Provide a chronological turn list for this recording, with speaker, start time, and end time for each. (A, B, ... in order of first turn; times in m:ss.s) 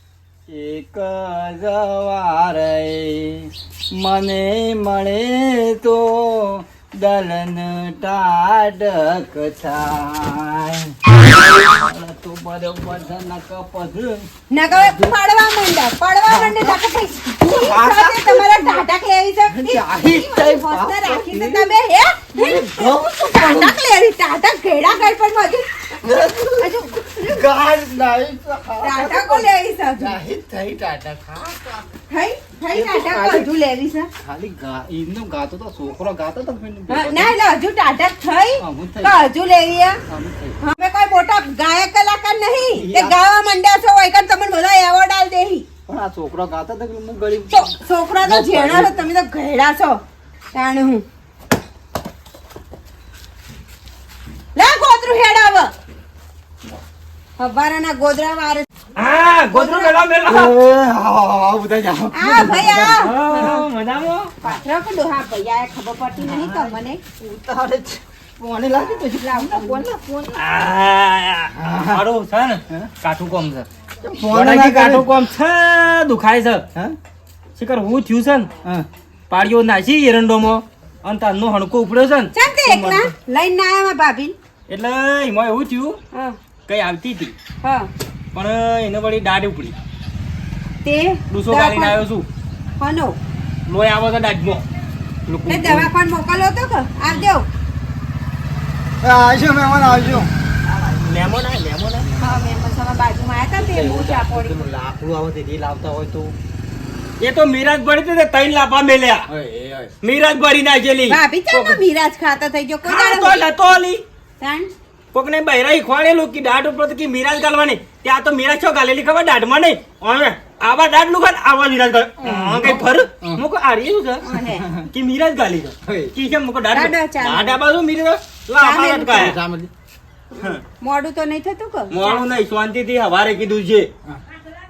0:00.5-0:15.1 A
0:14.5-0:25.6 B
0:16.3-0:18.9 A
0:19.5-0:21.7 A
0:22.3-0:23.8 A
0:26.0-0:31.9 A
0:26.6-0:27.4 B
0:28.8-0:30.2 B
0:32.1-0:34.1 B
0:32.7-0:33.5 A
0:34.2-0:37.3 A
0:36.9-0:40.0 B
0:38.6-0:39.2 A
0:40.1-0:40.6 A
0:40.6-0:45.7 B
0:42.7-0:43.2 A
0:45.9-0:48.9 A
0:47.5-0:50.0 B
0:50.5-0:51.0 B
0:54.5-0:55.7 B
0:57.4-0:58.7 B
0:59.0-1:00.5 C
0:59.5-1:00.0 B
1:00.2-1:03.6 A
1:02.1-1:03.6 B
1:03.0-1:04.3 C
1:04.4-1:07.0 B
1:07.2-1:10.4 A
1:09.2-1:09.8 B
1:10.3-1:13.7 C
1:11.5-1:12.0 A
1:14.0-1:15.1 A
1:14.3-1:16.6 C
1:17.6-1:18.5 C
1:19.3-1:23.1 C
1:22.3-1:24.3 B
1:24.7-1:26.0 C
1:26.7-1:27.3 C
1:27.6-1:27.9 B
1:28.3-1:29.8 C
1:30.8-1:32.0 B
1:31.3-1:32.2 C
1:32.8-1:33.2 B
1:33.7-1:34.6 C
1:35.3-1:35.9 A
1:35.5-1:37.5 B
1:39.0-1:40.3 A
1:40.7-1:42.1 C
1:42.0-1:42.3 A
1:42.2-1:44.6 B
1:43.6-1:46.3 A
1:47.2-1:49.3 C
1:49.3-1:49.9 A
1:50.0-1:51.8 C
1:51.1-1:53.5 B
1:52.8-1:54.0 C
1:54.4-1:54.7 B
1:55.1-2:04.2 C
2:02.2-2:03.4 A
2:04.2-2:04.6 B
2:04.4-2:04.9 A
2:04.9-2:09.4 C
2:05.8-2:06.1 A
2:06.7-2:07.4 B
2:08.6-2:09.3 B
2:09.1-2:09.7 A
2:10.8-2:12.2 B
2:11.9-2:13.9 C